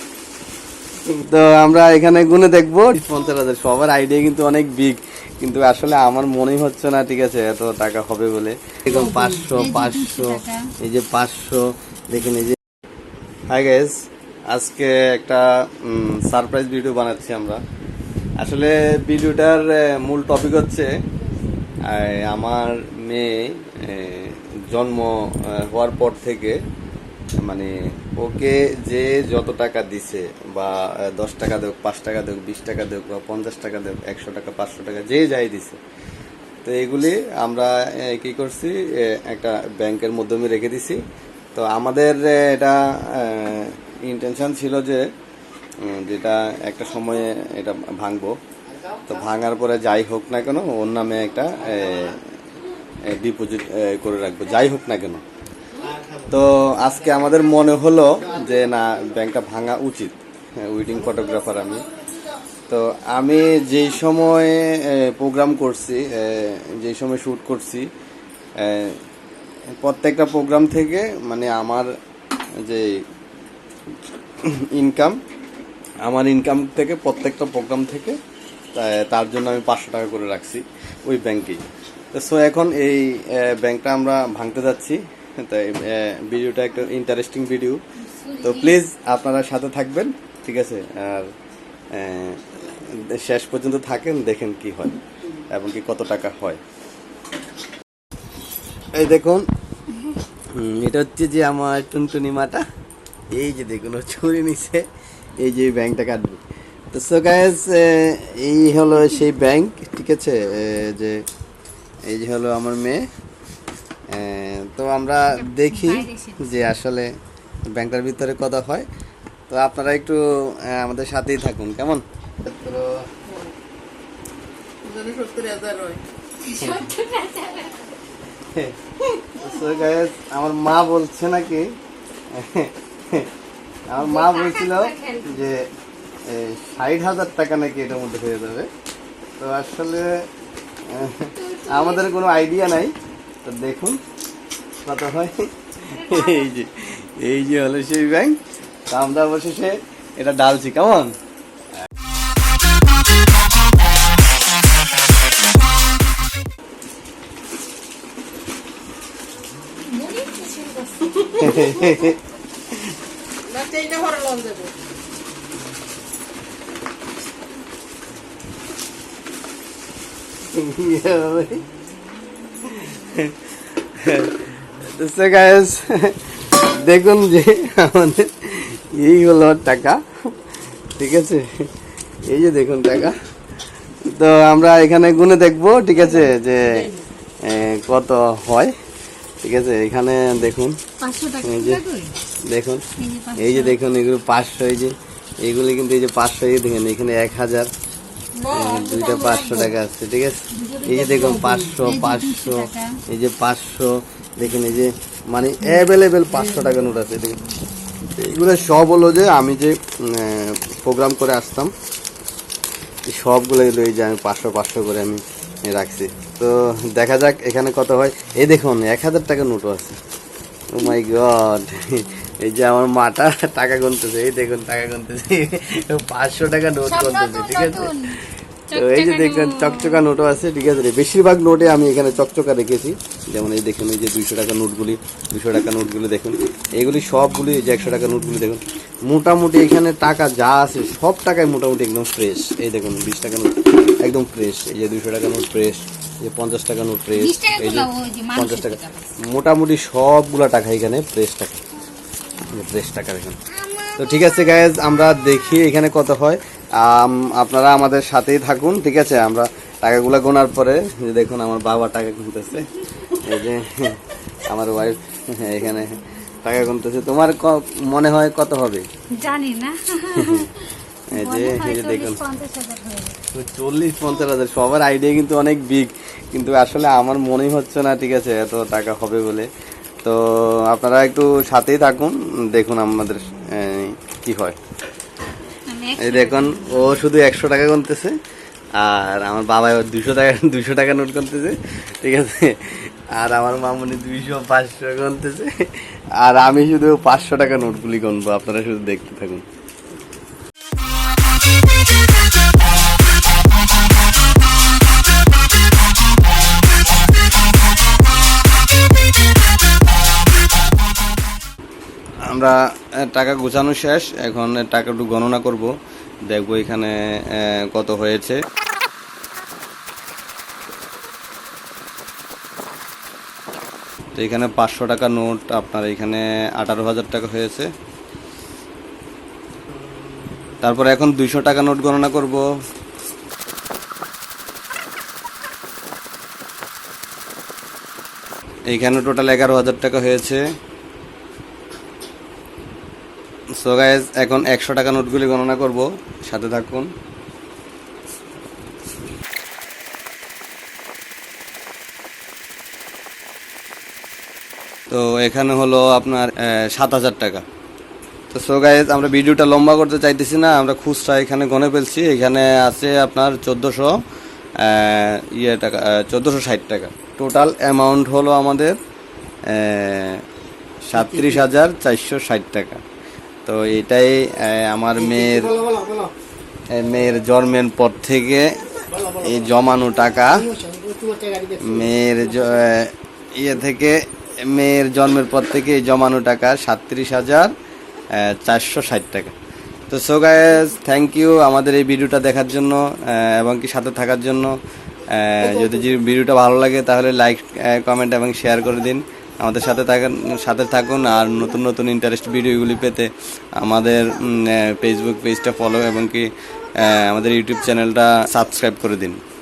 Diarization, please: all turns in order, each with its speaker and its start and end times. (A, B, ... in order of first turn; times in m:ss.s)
0:01.1-0:12.6 A
0:08.9-0:10.6 B
0:13.5-0:14.0 A
0:14.5-0:17.6 A
0:18.4-0:20.9 A
0:21.9-0:26.6 A
0:27.5-0:35.8 A
0:36.6-0:41.0 A
0:41.5-0:45.0 A
0:45.8-0:48.4 A
0:49.0-0:52.2 A
0:53.0-0:55.2 A
0:56.2-1:01.9 A
1:02.7-1:07.9 A
1:08.6-1:09.0 A
1:09.8-1:11.9 A
1:12.6-1:13.0 A
1:14.4-1:15.2 A
1:16.0-1:18.2 A
1:18.7-1:21.6 A
1:22.1-1:27.8 A
1:28.0-1:28.8 B
1:28.4-1:31.3 A
1:31.9-1:35.0 A
1:35.5-1:36.6 A
1:39.0-1:39.4 A
1:40.5-1:42.6 A
1:43.3-1:44.9 A
1:45.4-1:46.4 A
1:46.9-1:51.2 A
1:52.1-1:53.0 A
1:54.1-1:57.1 A
1:55.3-1:56.6 B
1:57.8-1:58.9 A
1:59.5-2:03.0 A
2:04.8-2:06.0 C
2:06.4-2:07.9 B
2:09.3-2:11.7 A
2:12.3-2:13.3 A
2:13.9-2:15.7 A
2:14.0-2:15.5 B
2:16.3-2:18.7 A
2:19.4-2:20.3 A
2:20.9-2:24.0 A
2:21.4-2:22.2 B
2:24.8-2:28.4 A
2:25.8-2:26.6 B
2:28.9-2:31.2 A
2:39.9-2:41.8 B
2:41.4-2:42.2 A
2:43.5-2:44.7 C
2:50.5-2:51.7 A
2:52.6-3:00.3 A
3:01.0-3:01.7 A
3:02.3-3:03.2 A
3:04.1-3:06.9 A
3:07.4-3:08.7 A
3:09.4-3:10.8 A
3:11.0-3:12.2 B
3:11.4-3:11.8 A
3:12.5-3:12.8 A
3:13.0-3:13.8 B
3:13.4-3:17.7 A
3:18.4-3:19.8 B
3:18.5-3:27.4 A
3:20.5-3:23.0 B
3:28.1-3:31.7 A
3:33.1-3:40.0 A
3:40.7-3:48.0 A
3:46.8-3:50.1 B
3:48.7-4:11.6 A
4:07.1-4:09.1 B
4:12.4-4:13.4 A
4:13.5-4:14.4 B
4:14.0-4:28.9 A
4:29.1-4:33.2 B
4:30.2-4:30.5 A
4:31.1-4:32.2 A
4:33.3-4:39.5 A
4:40.0-4:44.6 A
4:45.6-4:47.1 B
4:46.0-4:48.1 A
4:48.8-4:59.4 A
5:12.3-5:15.7 A
5:16.3-5:18.4 A
5:24.2-5:27.7 A
5:30.6-5:32.4 A
5:38.7-5:40.4 A
5:43.6-5:46.9 A
5:54.9-5:57.4 A
5:58.3-6:03.9 A
6:04.6-6:08.8 A
6:09.5-6:10.2 A
6:10.9-6:12.8 A
6:13.5-6:15.6 A
6:16.7-6:20.6 A
6:20.9-6:21.4 C
6:21.5-6:27.5 A
6:28.1-6:29.4 A
6:29.9-6:34.5 A
6:35.1-6:49.2 A